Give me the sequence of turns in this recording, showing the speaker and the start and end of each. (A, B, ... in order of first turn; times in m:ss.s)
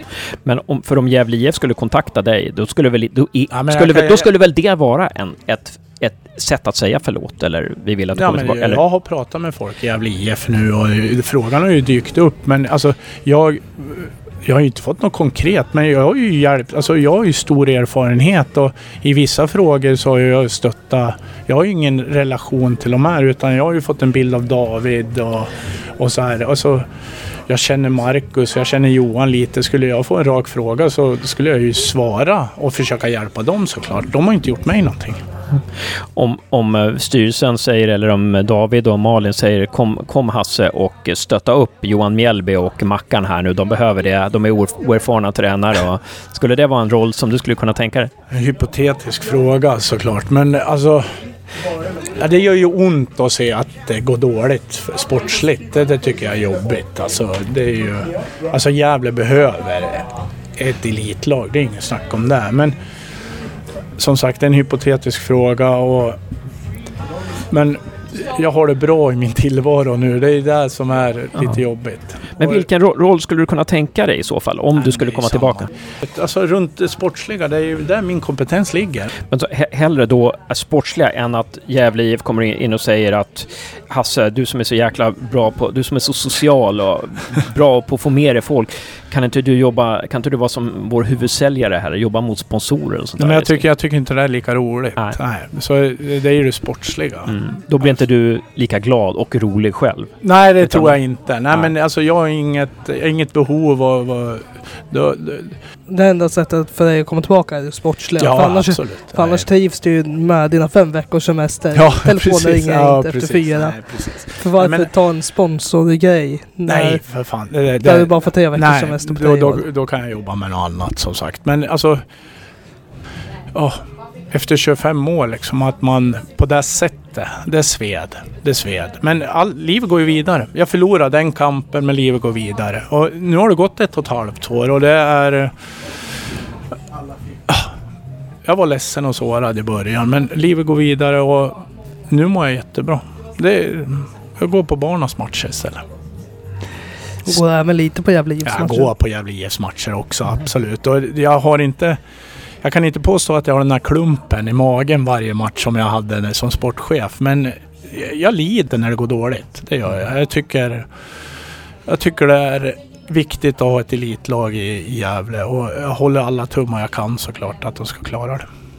0:00.4-0:08.8 A
0:03.5-0:04.3 B
0:08.2-0:26.8 B
0:27.5-0:35.2 B
0:36.1-0:48.1 A
0:48.3-0:51.1 B
0:52.2-1:02.7 B
1:04.0-1:06.2 B
1:07.5-1:12.7 B
1:12.4-1:15.7 A
1:14.8-1:19.1 B
1:19.3-1:33.6 A
1:33.2-1:37.4 B
1:37.3-1:41.0 A
1:40.2-1:45.6 B
1:45.9-1:53.8 C
1:48.2-1:49.5 B
1:51.7-1:54.9 B
1:54.4-1:57.0 C
1:56.6-2:02.0 B
1:57.8-1:59.6 C
2:03.5-2:15.5 B
2:18.4-2:25.8 B
2:27.2-2:28.9 C
2:28.4-2:32.0 B
2:32.6-2:40.8 B
2:41.9-2:48.4 B